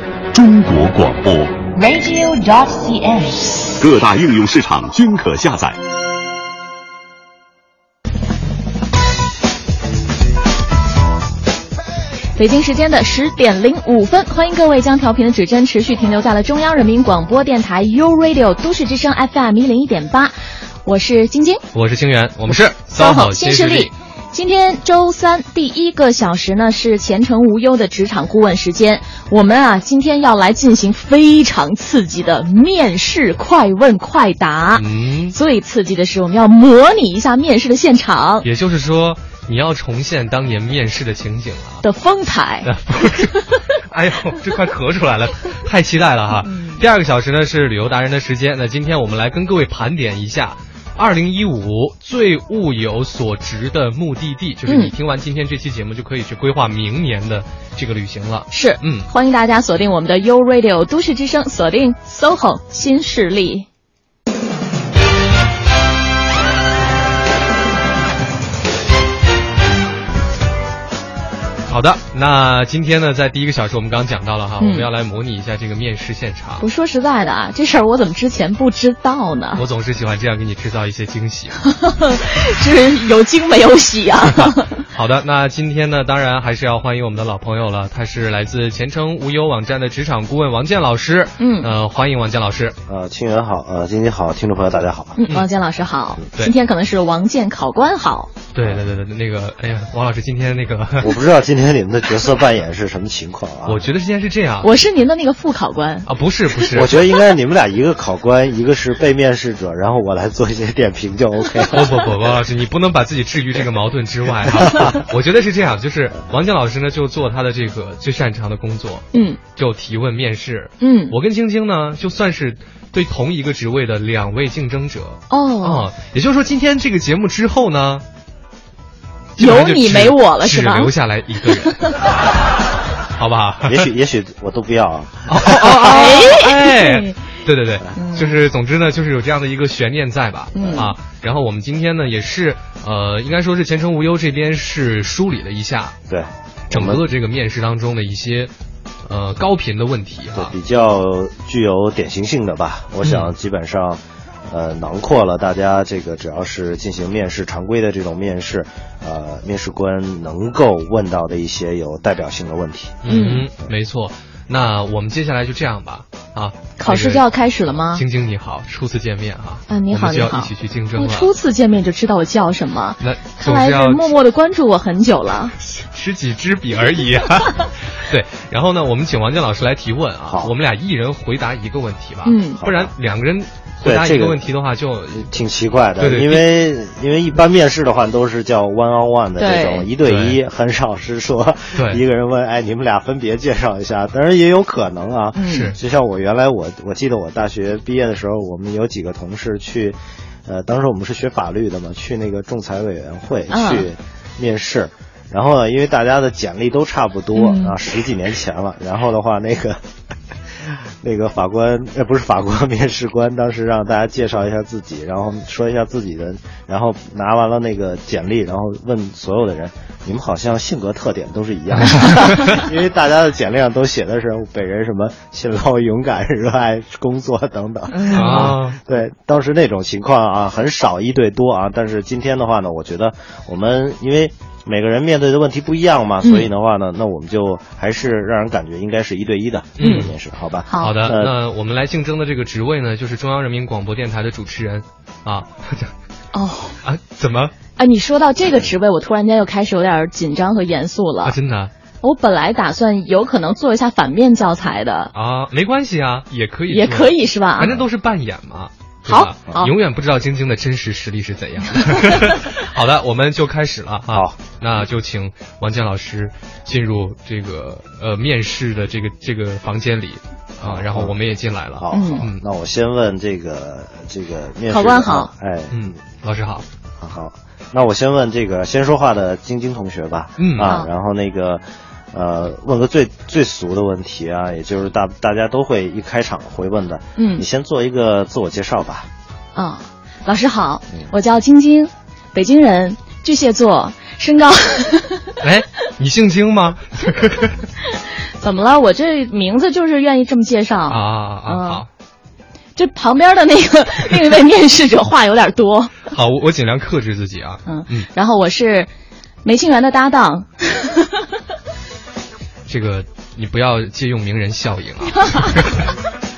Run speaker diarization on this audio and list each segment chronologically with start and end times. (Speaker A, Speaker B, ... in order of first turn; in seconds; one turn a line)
Speaker A: 0.3-1.6
Speaker B: 1.7-3.7
Speaker A: 3.8-5.8
Speaker C: 12.4-20.3
Speaker C: 20.9-21.6
Speaker D: 21.7-23.9
Speaker C: 22.9-38.5
Speaker D: 34.7-35.4
Speaker D: 38.4-41.8
Speaker C: 41.8-42.7
Speaker D: 42.6-59.1
Speaker C: 43.2-43.5
Speaker C: 46.4-46.8
Speaker C: 54.7-55.0
Speaker C: 58.5-63.7
Speaker D: 71.7-76.6
Speaker C: 74.6-74.9
Speaker C: 76.6-79.6
Speaker D: 79.6-81.6
Speaker C: 81.7-84.8
Speaker D: 84.3-92.8
Speaker C: 91.4-91.7
Speaker E: 92.9-95.2
Speaker C: 95.2-98.3
Speaker D: 98.5-101.2
Speaker E: 101.0-103.8
Speaker D: 103.7-104.9
Speaker C: 104.6-106.1
Speaker D: 106.1-107.1
Speaker E: 106.7-112.1
Speaker D: 111.7-128.0
Speaker E: 114.6-115.0
Speaker C: 119.1-119.4
Speaker C: 120.8-121.2
Speaker C: 125.3-125.9
Speaker D: 129.4-132.0
Speaker C: 129.4-130.9
Speaker D: 133.2-133.9
Speaker E: 133.6-135.8
Speaker D: 135.3-146.0
Speaker C: 135.7-137.2
Speaker C: 137.9-138.4
Speaker C: 140.5-140.9
Speaker E: 140.6-140.9
Speaker E: 146.1-147.0
Speaker D: 146.7-148.5
Speaker D: 149.1-150.5
Speaker E: 150.3-163.1
Speaker D: 153.0-153.3
Speaker D: 163.0-167.2
Speaker C: 163.1-163.5
Speaker C: 166.8-168.0
Speaker D: 167.9-171.3
Speaker C: 169.7-175.6
Speaker D: 173.0-174.1
Speaker D: 175.6-185.3
Speaker E: 180.3-180.5
Speaker C: 182.2-182.6
Speaker E: 182.6-182.9
Speaker E: 183.8-184.5
Speaker E: 185.1-209.8
Speaker D: 186.0-186.5
Speaker C: 189.4-189.9
Speaker D: 190.0-190.4
Speaker D: 191.8-192.0
Speaker C: 195.4-195.7
Speaker D: 195.5-195.8
Speaker C: 203.5-203.9
Speaker C: 207.3-207.8
Speaker E: 210.6-241.3
Speaker D: 221.9-222.6
Speaker C: 227.9-228.6
Speaker D: 228.1-228.8
Speaker C: 236.2-236.5
Speaker D: 239.8-240.2
Speaker C: 239.8-240.1
Speaker C: 240.7-241.1
Speaker D: 240.8-245.9
Speaker C: 246.3-246.8
Speaker D: 246.8-247.5
Speaker C: 247.8-251.3
Speaker D: 251.2-251.7
Speaker C: 252.0-255.1
Speaker D: 255.1-272.4
Speaker C: 256.7-257.7
Speaker C: 259.1-259.7
Speaker C: 261.8-262.4
Speaker E: 264.1-264.8
Speaker E: 270.6-271.2
Speaker E: 271.8-276.0
Speaker C: 271.9-272.2
Speaker C: 274.7-275.3
Speaker D: 275.7-276.6
Speaker E: 277.0-289.1
Speaker D: 280.4-280.8
Speaker C: 280.6-280.9
Speaker C: 287.2-287.5
Speaker C: 289.6-295.4
Speaker D: 295.4-297.6
Speaker C: 297.9-301.9
Speaker D: 300.9-301.9
Speaker C: 302.8-306.1
Speaker D: 306.1-308.1
Speaker C: 307.7-308.9
Speaker C: 309.4-311.2
Speaker D: 312.7-315.9
Speaker C: 315.1-315.7